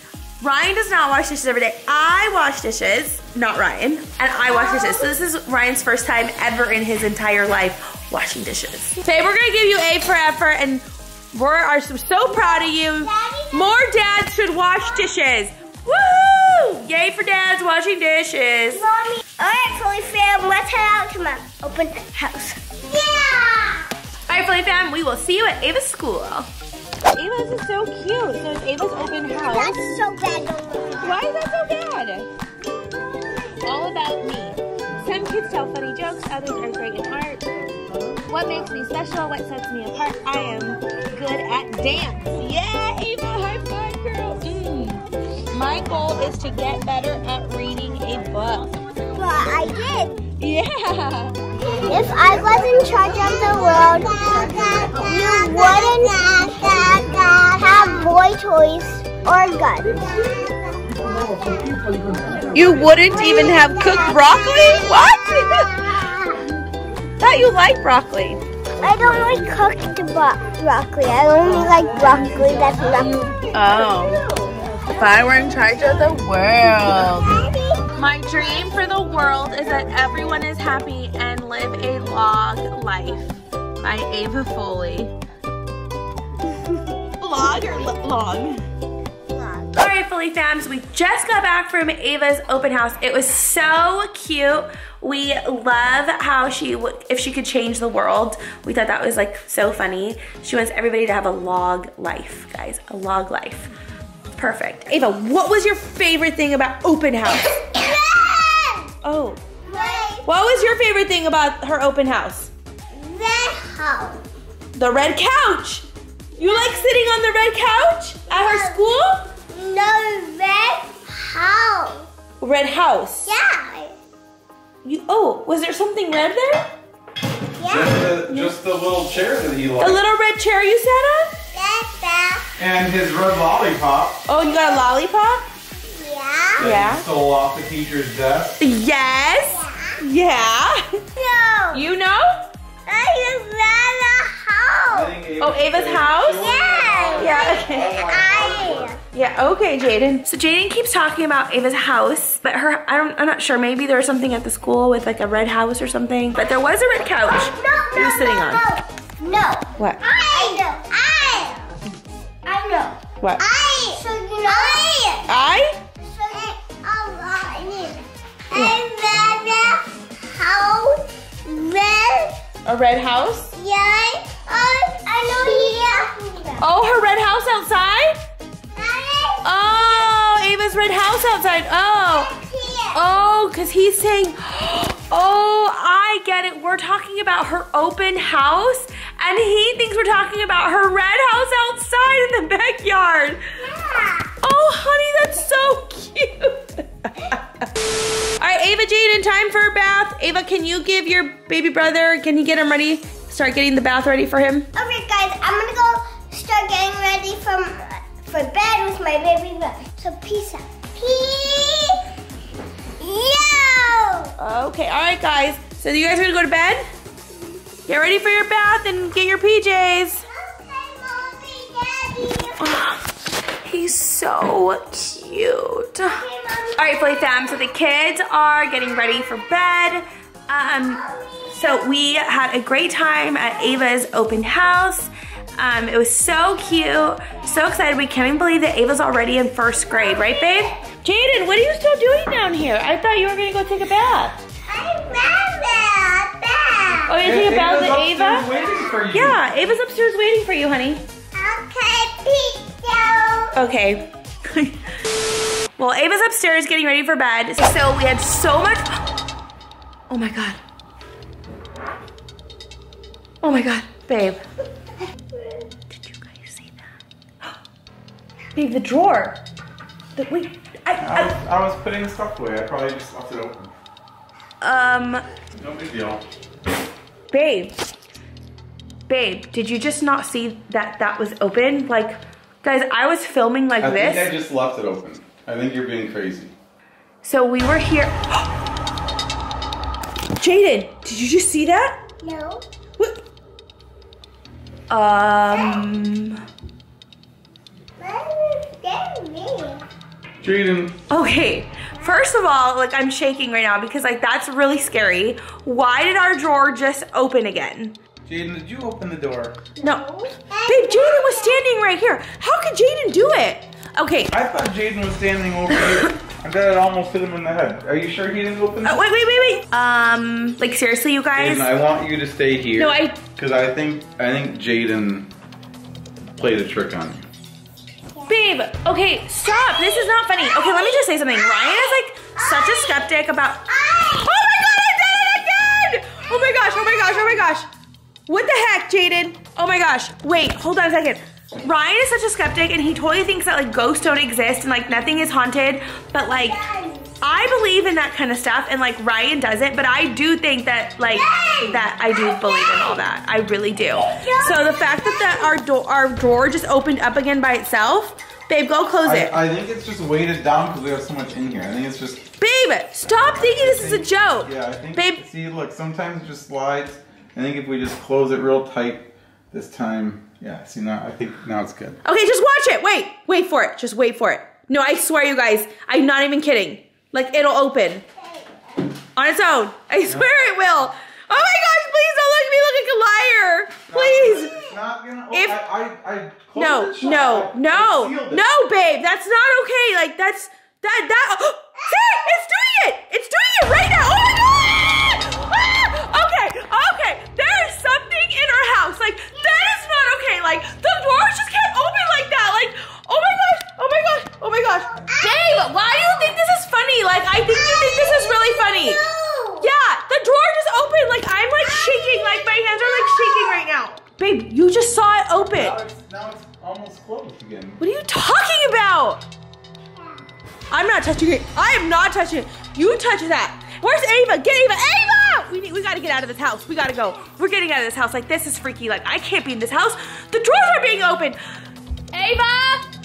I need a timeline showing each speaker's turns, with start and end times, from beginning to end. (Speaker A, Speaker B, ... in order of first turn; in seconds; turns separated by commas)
Speaker A: 0.4-18.9, Speaker B: 4.5-5.0, Speaker B: 13.0-13.8, Speaker B: 18.7-23.9, Speaker A: 24.3-26.5, Speaker A: 27.1-29.9, Speaker B: 29.3-31.2, Speaker A: 31.0-32.3, Speaker A: 33.6-37.5, Speaker A: 38.2-48.8, Speaker B: 49.1-50.2, Speaker A: 50.4-51.4, Speaker B: 51.8-60.5, Speaker A: 55.0-56.1, Speaker A: 62.5-66.0, Speaker B: 63.1-65.0, Speaker A: 67.2-68.4, Speaker B: 68.8-73.4, Speaker A: 73.5-74.2, Speaker A: 75.0-77.4, Speaker B: 77.2-77.9, Speaker A: 77.9-85.1, Speaker A: 87.2-88.6, Speaker A: 89.7-103.7, Speaker A: 104.4-107.6, Speaker B: 107.5-108.9, Speaker A: 109.0-109.4, Speaker B: 109.7-110.3, Speaker A: 110.2-112.5, Speaker B: 112.9-114.2, Speaker A: 114.8-115.9, Speaker A: 116.4-119.3, Speaker B: 116.4-117.0, Speaker B: 118.3-118.8, Speaker B: 119.5-122.0, Speaker A: 122.4-123.3, Speaker B: 123.3-123.9, Speaker A: 124.8-126.7, Speaker B: 127.6-128.0, Speaker C: 127.7-130.0, Speaker A: 129.8-131.4, Speaker B: 131.5-132.5, Speaker C: 132.6-134.2, Speaker A: 134.3-135.5, Speaker B: 135.9-136.7, Speaker C: 136.6-138.6, Speaker A: 136.6-137.1, Speaker A: 138.6-140.9, Speaker B: 139.5-140.0, Speaker B: 141.2-141.8, Speaker A: 141.7-142.4, Speaker B: 142.9-145.2, Speaker C: 144.9-149.0, Speaker A: 145.4-146.5, Speaker B: 146.3-149.0, Speaker A: 147.2-148.0, Speaker A: 149.1-158.7, Speaker B: 157.2-161.7, Speaker B: 162.5-172.4, Speaker A: 165.3-165.8, Speaker A: 168.5-168.8, Speaker A: 172.7-173.5, Speaker B: 173.6-176.7, Speaker A: 176.6-178.2, Speaker B: 178.8-179.5, Speaker A: 179.4-182.3, Speaker B: 182.1-183.0, Speaker A: 182.9-193.4, Speaker B: 193.7-194.3, Speaker A: 194.4-197.4, Speaker A: 198.4-204.7, Speaker B: 204.8-212.0, Speaker B: 213.0-214.3, Speaker A: 214.4-216.8, Speaker A: 217.9-220.2, Speaker B: 220.3-222.8, Speaker A: 222.6-223.0, Speaker A: 223.6-226.2, Speaker B: 226.0-227.3, Speaker A: 226.8-244.4, Speaker B: 230.8-231.5, Speaker B: 239.8-240.8, Speaker B: 244.7-247.2, Speaker A: 247.1-248.5, Speaker C: 247.2-249.4, Speaker A: 249.1-251.0, Speaker B: 251.3-253.6, Speaker A: 253.5-254.8, Speaker A: 255.8-259.0, Speaker A: 260.1-260.6, Speaker A: 263.4-264.4, Speaker A: 265.9-266.9, Speaker A: 268.6-269.4, Speaker A: 270.2-271.4, Speaker C: 271.0-273.7, Speaker A: 274.6-275.2, Speaker C: 275.6-276.2, Speaker A: 277.3-277.8, Speaker A: 279.1-284.3, Speaker C: 283.8-286.5, Speaker A: 287.2-288.5, Speaker A: 290.4-292.0, Speaker B: 292.2-292.6, Speaker A: 294.9-296.4, Speaker B: 295.5-295.8, Speaker B: 298.0-299.9, Speaker C: 300.4-301.0, Speaker A: 301.1-308.0, Speaker B: 301.9-302.2, Speaker C: 308.3-309.6, Speaker A: 309.8-310.1, Speaker B: 309.8-311.7, Speaker A: 310.6-314.3, Speaker C: 314.3-319.0, Speaker A: 315.7-316.1, Speaker A: 318.8-321.7, Speaker C: 321.4-325.3, Speaker A: 322.8-323.2, Speaker C: 326.4-327.3, Speaker A: 328.3-337.7, Speaker B: 329.4-333.0, Speaker B: 333.7-334.3, Speaker B: 336.2-337.5, Speaker A: 338.3-346.6, Speaker B: 346.3-347.2, Speaker A: 347.2-359.4, Speaker B: 351.1-353.0, Speaker B: 353.9-355.6, Speaker C: 359.0-362.2, Speaker A: 362.4-365.2, Speaker C: 363.2-372.0, Speaker A: 372.0-378.1, Speaker B: 378.2-378.8, Speaker A: 379.2-384.7, Speaker C: 380.1-380.5, Speaker C: 383.9-388.4, Speaker A: 385.3-385.6, Speaker A: 386.6-409.0, Speaker B: 404.9-406.4, Speaker B: 407.5-409.7, Speaker A: 409.6-415.8, Speaker B: 411.6-413.6, Speaker C: 415.4-417.8, Speaker A: 417.8-419.2, Speaker A: 420.7-431.4, Speaker A: 432.1-432.8